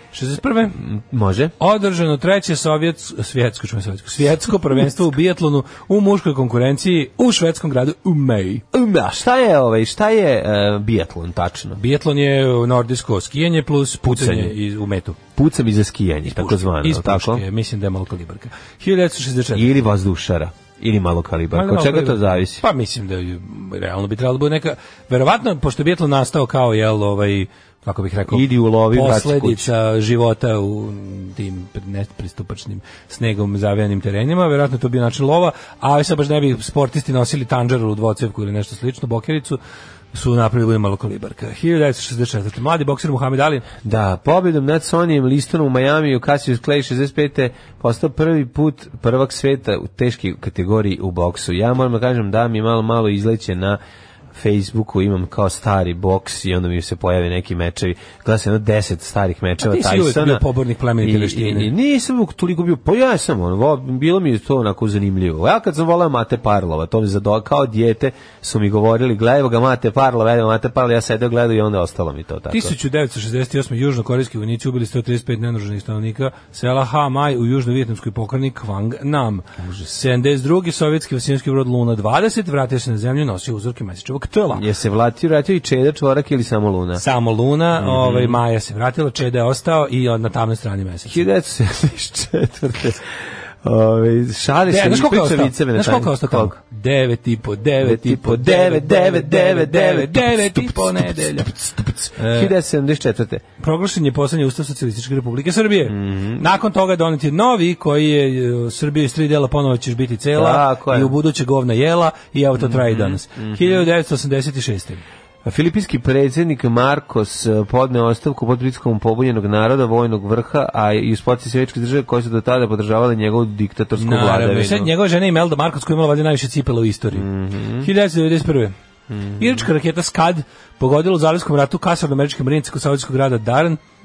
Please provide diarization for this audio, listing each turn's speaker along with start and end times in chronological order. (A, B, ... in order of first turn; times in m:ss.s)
0:00.1-0:00.8 A
0:00.8-0:01.5 B
0:01.6-0:08.6 A
0:08.7-0:11.8 B
0:11.8-0:15.2 A
0:14.0-0:14.6 B
0:15.4-0:17.4 B
0:16.3-0:19.7 A
0:19.5-0:22.6 B
0:21.5-0:39.6 A
0:28.3-0:29.7 B
0:40.1-0:43.7 A
0:43.8-0:53.8 B
0:54.3-1:00.4 B
0:59.6-1:01.7 A
1:01.0-1:12.7 B
1:12.5-1:24.6 A
1:19.6-1:19.9 B
1:24.5-1:27.0 B
1:27.0-1:31.2 A
1:27.7-1:28.4 B
1:31.1-1:36.6 B
1:34.7-1:41.5 A
1:37.8-1:43.4 B
1:42.2-1:42.5 A
1:43.6-1:55.0 A
1:45.8-1:46.5 B
1:50.3-1:51.2 B
1:52.6-1:53.9 B
1:55.4-2:04.9 B
2:04.0-2:07.3 A
2:07.1-2:07.9 B
2:07.8-2:08.7 A
2:09.1-2:09.7 B
2:09.4-2:13.8 A